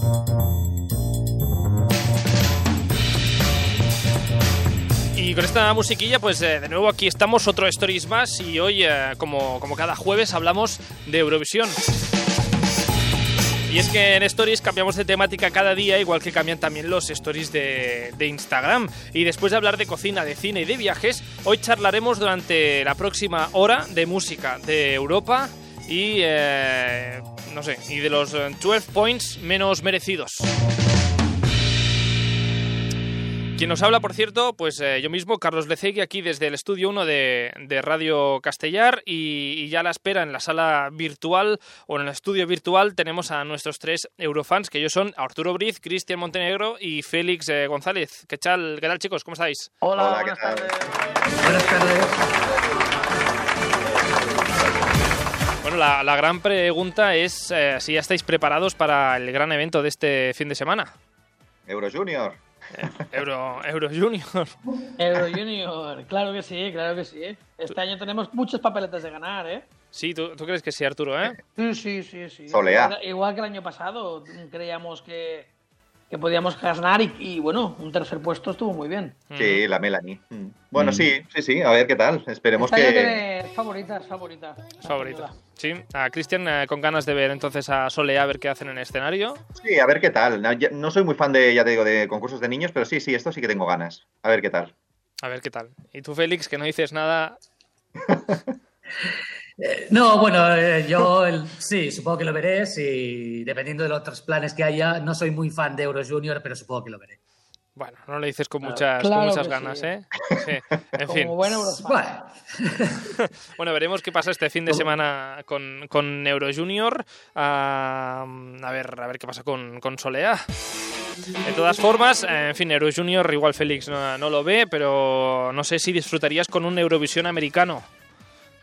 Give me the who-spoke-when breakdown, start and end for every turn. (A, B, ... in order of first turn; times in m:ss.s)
0:05.2-0:11.8 A
0:13.7-0:30.5 A
0:33.6-0:49.7 A
0:49.8-0:51.7 B
0:50.0-0:50.7 C
0:51.4-0:52.1 D
0:55.6-1:00.9 A
1:01.7-1:02.4 C
1:02.8-1:04.6 A
1:05.0-1:09.7 B
1:09.9-1:11.4 A
1:11.6-1:15.5 B
1:12.5-1:13.0 C
1:16.1-1:19.2 B
1:19.3-1:19.6 A
1:19.4-1:23.2 C
1:20.8-1:21.1 D
1:22.6-1:25.3 B
1:24.8-1:29.4 A
1:29.6-1:34.7 C
1:35.2-1:37.4 A
1:38.1-1:38.4 C
1:39.6-1:47.2 D
1:47.8-1:51.8 A
1:48.6-1:49.9 B
1:51.0-1:52.0 B
1:51.9-1:53.1 D
1:53.6-2:00.4 A
2:01.4-2:07.8 A